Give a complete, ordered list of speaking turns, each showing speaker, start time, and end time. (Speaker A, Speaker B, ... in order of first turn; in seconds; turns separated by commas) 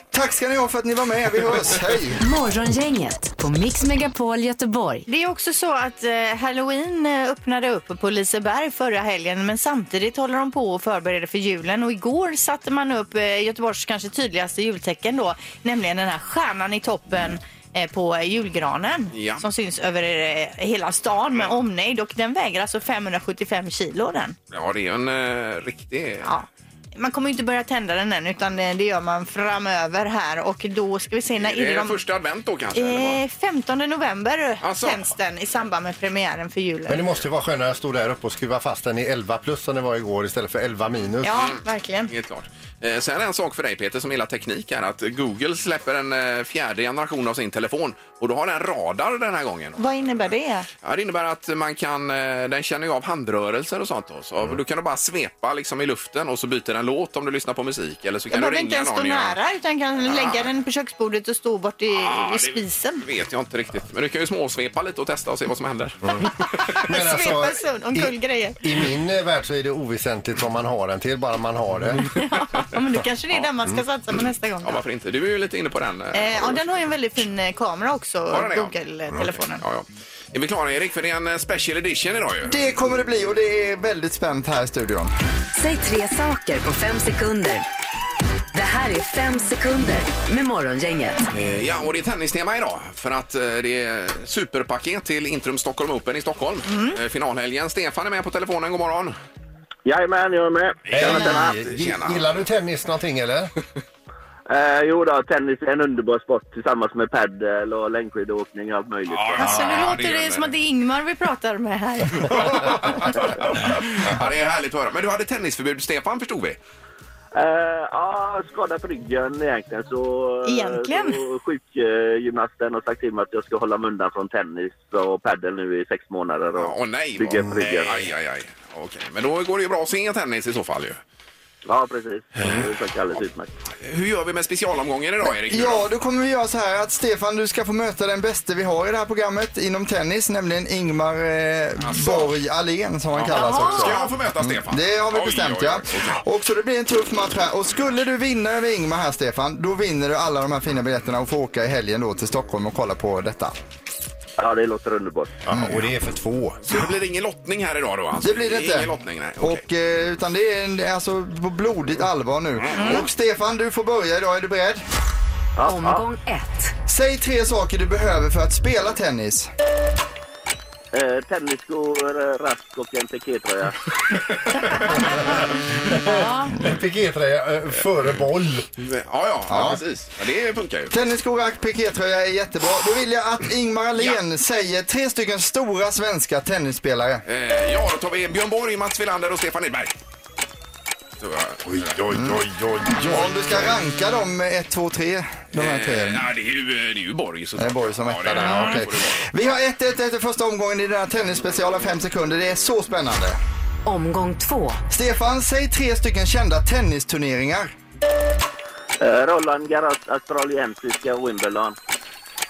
Speaker A: 0.1-2.2, Speaker B: 2.2-5.0, Speaker C: 5.1-24.4, Speaker D: 19.1-19.4, Speaker D: 24.5-26.3, Speaker C: 26.2-32.0, Speaker D: 31.4-33.2, Speaker C: 32.7-37.0, Speaker D: 34.6-35.0, Speaker E: 36.9-41.4, Speaker C: 41.2-42.1, Speaker D: 41.3-49.8, Speaker C: 49.8-50.7, Speaker D: 50.8-59.4, Speaker C: 58.3-63.0, Speaker D: 60.0-60.5, Speaker D: 61.9-66.3, Speaker E: 66.0-72.1, Speaker C: 66.7-68.6, Speaker C: 72.1-74.8, Speaker D: 74.6-76.6, Speaker C: 76.1-79.6, Speaker D: 78.3-78.8, Speaker D: 79.6-82.6, Speaker A: 82.5-85.1, Speaker B: 85.5-87.6, Speaker B: 88.5-91.3, Speaker D: 91.3-99.2, Speaker C: 96.7-97.0, Speaker F: 99.8-101.6, Speaker D: 100.8-102.4, Speaker E: 100.9-103.5, Speaker F: 104.5-109.5, Speaker D: 109.1-110.5, Speaker C: 109.4-112.9, Speaker D: 112.2-116.6, Speaker F: 117.3-128.1, Speaker C: 120.4-121.2, Speaker D: 126.5-131.0, Speaker F: 131.7-133.5, Speaker D: 132.4-132.7, Speaker D: 133.8-135.8, Speaker A: 135.3-153.5, Speaker D: 141.8-142.3, Speaker D: 143.1-146.2, Speaker C: 143.3-144.1, Speaker F: 154.4-155.4, Speaker E: 155.4-156.9, Speaker A: 155.5-155.8, Speaker D: 156.6-159.6, Speaker A: 158.2-164.8, Speaker D: 162.6-163.1, Speaker F: 165.6-166.0, Speaker B: 165.6-166.7, Speaker A: 166.9-169.5, Speaker F: 170.9-173.7, Speaker E: 175.8-178.7, Speaker C: 175.8-176.5, Speaker D: 178.8-180.9, Speaker A: 179.5-179.8, Speaker A: 180.9-187.2, Speaker D: 187.3-189.9, Speaker D: 191.2-192.0, Speaker E: 191.6-193.6, Speaker A: 192.1-192.4, Speaker A: 193.0-196.2, Speaker D: 195.5-199.2, Speaker A: 197.6-203.4, Speaker C: 198.3-198.8, Speaker B: 203.8-204.8, Speaker A: 204.9-207.7, Speaker F: 209.0-211.8